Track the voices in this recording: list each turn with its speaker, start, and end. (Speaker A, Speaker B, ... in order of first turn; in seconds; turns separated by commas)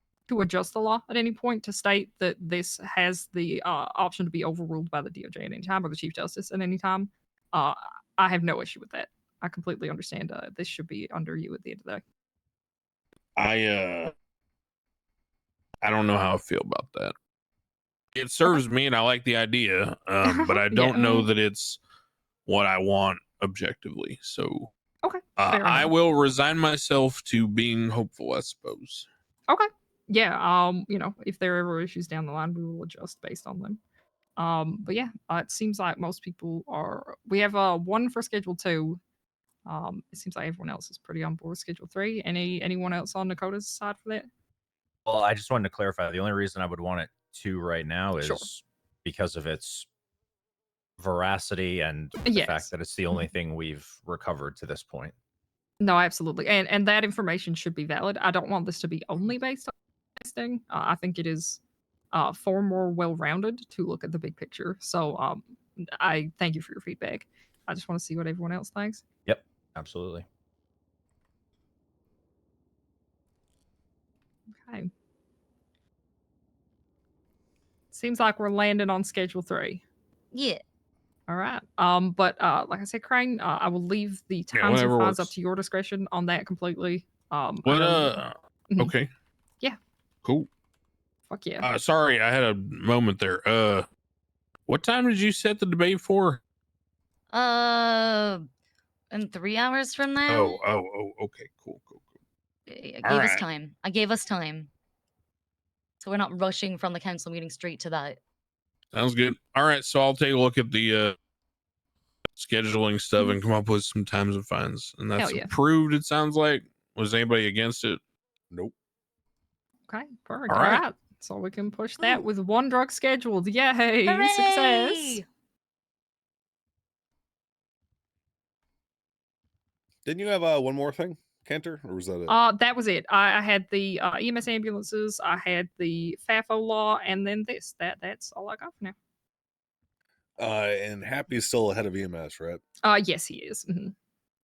Speaker A: 0.3-12.0, Speaker B: 13.3-14.1, Speaker B: 15.8-17.1, Speaker B: 18.1-21.8, Speaker A: 20.2-21.3, Speaker B: 22.4-24.7, Speaker A: 25.0-25.9, Speaker B: 25.4-29.1, Speaker A: 29.5-33.8, Speaker A: 34.4-39.0, Speaker A: 39.7-44.3, Speaker C: 45.0-49.9, Speaker A: 48.2-48.5, Speaker C: 51.0-55.1, Speaker A: 52.2-53.3, Speaker A: 55.8-61.6, Speaker A: 62.1-69.0, Speaker C: 69.2-70.2, Speaker A: 77.9-79.8, Speaker D: 80.3-80.6, Speaker A: 81.3-88.9, Speaker B: 84.5-85.3, Speaker B: 87.7-89.1, Speaker A: 91.3-91.7, Speaker B: 91.6-93.9, Speaker B: 94.7-96.4, Speaker D: 97.3-98.4, Speaker D: 99.1-100.5, Speaker B: 100.3-102.0, Speaker D: 102.7-104.7, Speaker B: 103.0-103.4, Speaker D: 106.0-108.2, Speaker B: 108.9-111.2, Speaker B: 112.3-118.0, Speaker A: 115.2-115.5, Speaker A: 119.9-125.2, Speaker B: 120.5-120.8, Speaker D: 124.1-125.2, Speaker E: 130.0-132.4, Speaker A: 132.3-138.9, Speaker E: 140.4-142.6, Speaker A: 142.8-143.9